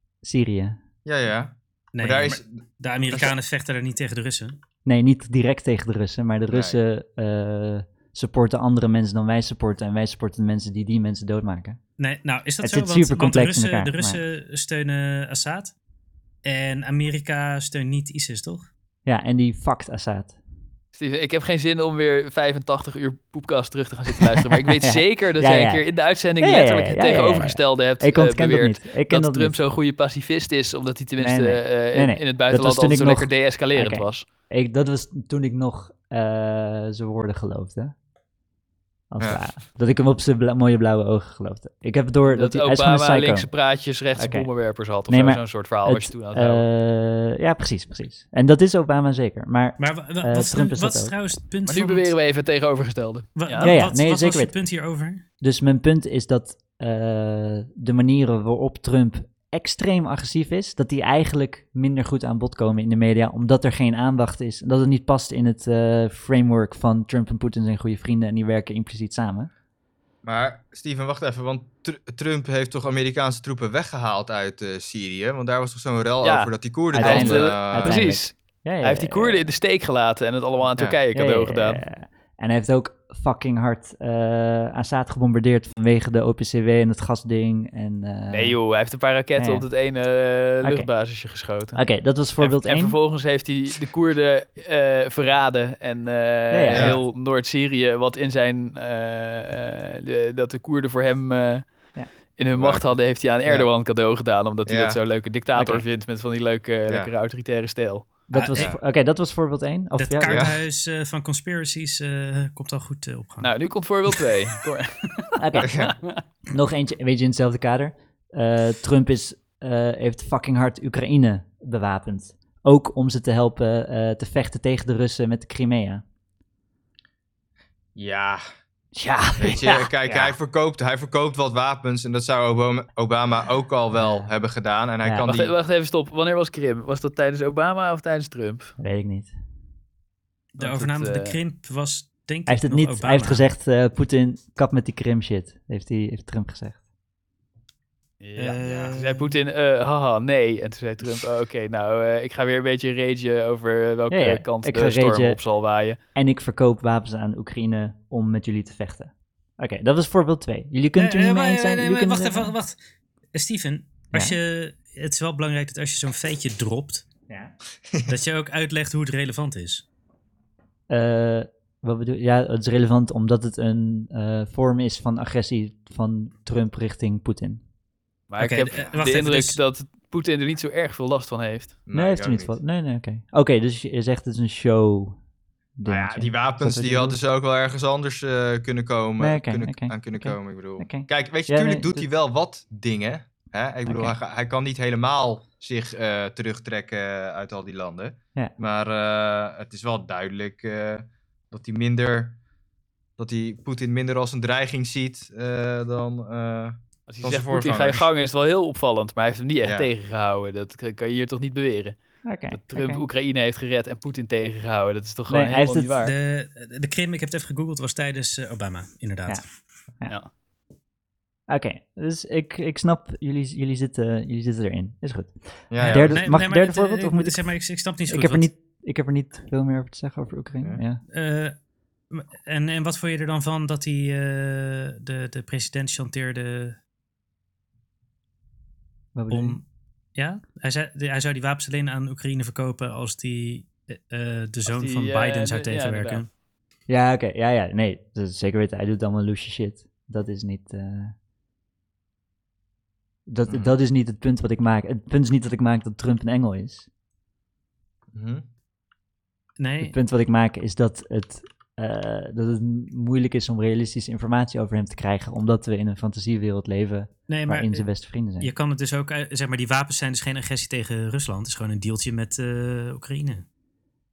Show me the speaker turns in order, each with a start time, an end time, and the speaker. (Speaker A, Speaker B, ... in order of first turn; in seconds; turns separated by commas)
Speaker A: 0.2-0.8, Speaker B: 1.0-2.5, Speaker C: 1.9-4.6, Speaker A: 4.8-11.8, Speaker B: 6.5-6.8, Speaker C: 12.0-15.7, Speaker A: 12.6-14.2, Speaker C: 16.4-18.7, Speaker A: 19.1-20.4, Speaker D: 20.9-34.2, Speaker A: 24.8-29.6, Speaker A: 31.2-37.9, Speaker A: 39.1-43.5, Speaker D: 42.2-46.7, Speaker A: 44.1-44.5, Speaker A: 45.1-51.2, Speaker C: 49.8-52.1, Speaker D: 51.6-53.8, Speaker C: 53.4-55.2, Speaker A: 53.6-54.5, Speaker A: 55.4-69.5, Speaker B: 70.2-78.1, Speaker D: 76.2-81.8, Speaker A: 76.9-79.4, Speaker A: 81.1-88.6, Speaker D: 88.3-91.8, Speaker A: 89.4-89.6, Speaker A: 90.6-90.9, Speaker A: 91.7-93.0, Speaker D: 92.4-101.7, Speaker A: 96.5-97.0, Speaker B: 96.7-97.0, Speaker D: 102.3-108.1, Speaker B: 102.5-103.7, Speaker B: 104.7-105.0, Speaker A: 105.5-105.8, Speaker A: 108.3-110.5, Speaker C: 108.3-108.7, Speaker C: 110.0-113.6, Speaker B: 110.2-110.5, Speaker D: 113.4-116.2, Speaker A: 115.3-115.9, Speaker B: 115.6-115.9, Speaker A: 116.5-126.0, Speaker B: 128.0-128.4, Speaker A: 128.9-130.3, Speaker B: 129.4-135.5, Speaker A: 135.0-135.3, Speaker D: 135.2-138.7, Speaker A: 138.8-139.3, Speaker C: 140.5-143.4, Speaker D: 140.6-141.4, Speaker A: 142.5-146.8, Speaker D: 148.2-156.0, Speaker C: 148.4-149.3, Speaker B: 148.6-148.9, Speaker A: 154.1-155.4, Speaker A: 156.1-162.5, Speaker C: 161.0-162.8, Speaker C: 163.3-167.0, Speaker A: 167.3-167.5, Speaker C: 168.1-169.8, Speaker A: 170.9-177.6, Speaker D: 178.3-181.8, Speaker C: 178.4-179.6, Speaker B: 181.9-182.6, Speaker A: 181.9-185.2, Speaker A: 185.8-187.2, Speaker B: 185.8-202.4, Speaker A: 189.2-192.1, Speaker A: 193.8-194.2, Speaker B: 203.2-208.0, Speaker D: 207.1-216.1, Speaker B: 209.6-209.9, Speaker A: 212.2-213.0, Speaker A: 215.3-215.9, Speaker C: 216.0-219.4, Speaker A: 221.5-227.4, Speaker B: 225.7-226.3, Speaker C: 225.8-228.5, Speaker A: 228.1-231.0, Speaker C: 231.1-231.5, Speaker C: 232.1-236.8, Speaker A: 239.1-239.6, Speaker C: 239.3-239.6, Speaker C: 240.1-246.3, Speaker D: 244.7-246.2, Speaker A: 246.9-251.1, Speaker A: 253.3-256.9, Speaker B: 258.1-258.4, Speaker C: 259.6-259.9, Speaker A: 259.8-268.5, Speaker C: 267.3-267.9, Speaker C: 268.4-273.4